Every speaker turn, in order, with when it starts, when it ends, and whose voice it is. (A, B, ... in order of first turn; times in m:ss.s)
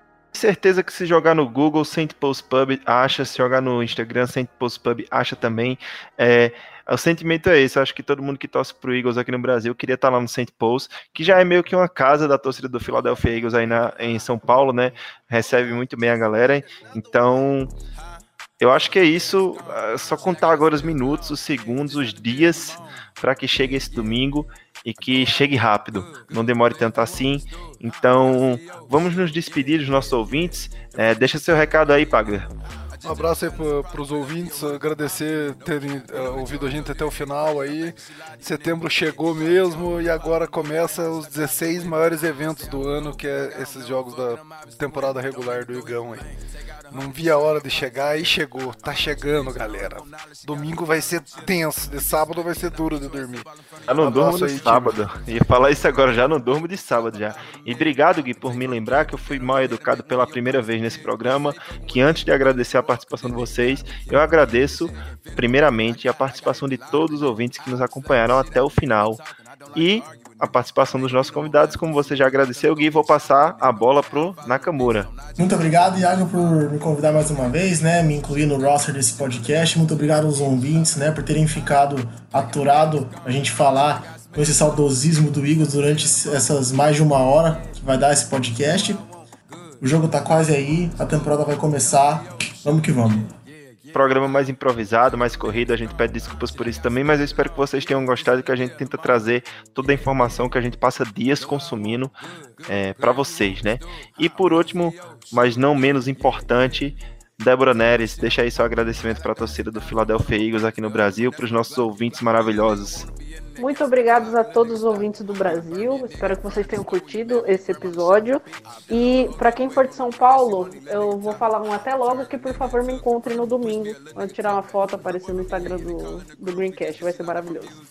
0:00.3-0:17.7 A
0:18.6-0:32.5 A
0:33.0-0:46.3 B
0:46.9-0:53.5 B
0:53.9-1:09.2 A
0:54.0-0:55.0 B
1:09.8-1:15.1 A
1:15.4-1:29.0 C
1:29.8-1:33.3 C
1:33.9-1:42.2 A
1:42.7-1:53.1 A
1:53.6-2:07.8 D